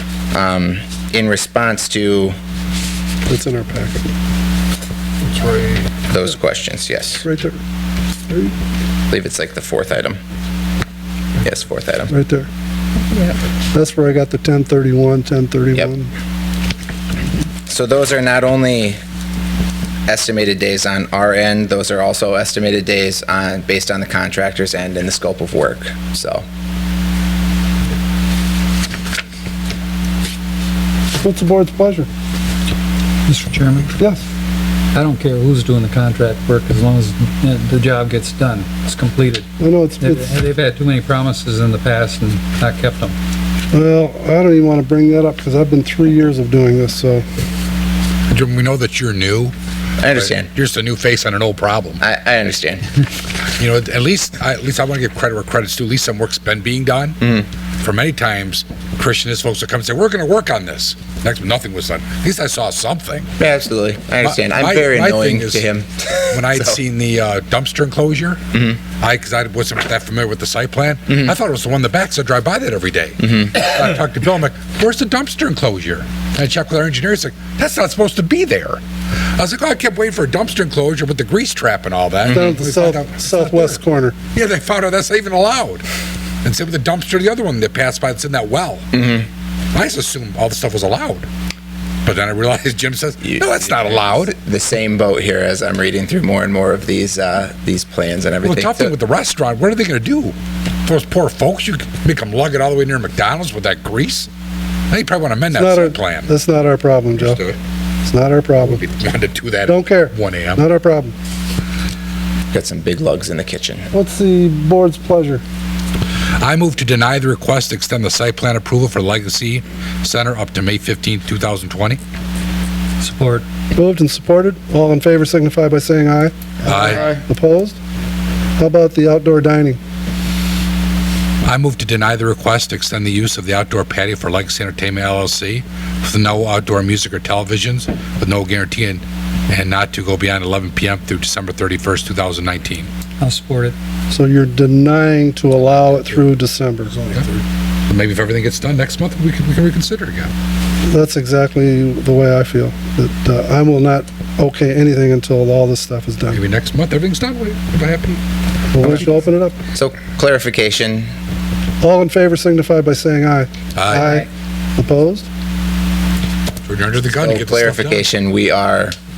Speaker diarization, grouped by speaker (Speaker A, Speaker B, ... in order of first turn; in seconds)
Speaker A: 0.3-2.4, 6.1-7.2, 9.1-10.2, 11.4-12.1, 17.7-19.0, 20.1-26.4, 50.0-50.5, 52.0-52.9, 57.2-57.5, 63.4-66.8, 68.5-68.8, 73.2-73.6, 88.9-89.3, 93.2-99.0, 112.5-113.9, 159.7-161.1, 167.2-168.9
Speaker B: 3.3-4.1, 7.2-7.6, 12.1-12.5, 13.7-16.1, 31.2-32.1, 39.6-40.4, 43.7-47.2, 82.3-84.2, 105.5-107.4, 108.0-108.8, 109.7-111.1, 113.9-115.4, 123.8-127.8, 128.6-129.8, 144.1-146.9, 150.9-156.4, 158.7-159.6, 161.8-165.3
Speaker C: 33.3-34.0, 34.9-39.5, 40.0-43.1, 123.0-123.4, 143.2-143.8
Speaker D: 48.3-49.5, 50.1-52.0, 53.6-57.2, 57.8-63.3, 64.2-65.6, 66.3-68.4, 69.0-78.8, 79.4-83.8, 84.3-85.8, 86.4-88.9, 89.7-91.3, 92.0-94.3, 98.4-100.3, 100.9-104.3, 104.9-106.3, 107.2-107.6, 108.6-110.6, 116.4-122.0, 126.7-127.2, 131.4-142.9, 147.9-150.3, 156.3-158.2, 163.8-164.2, 166.7-168.1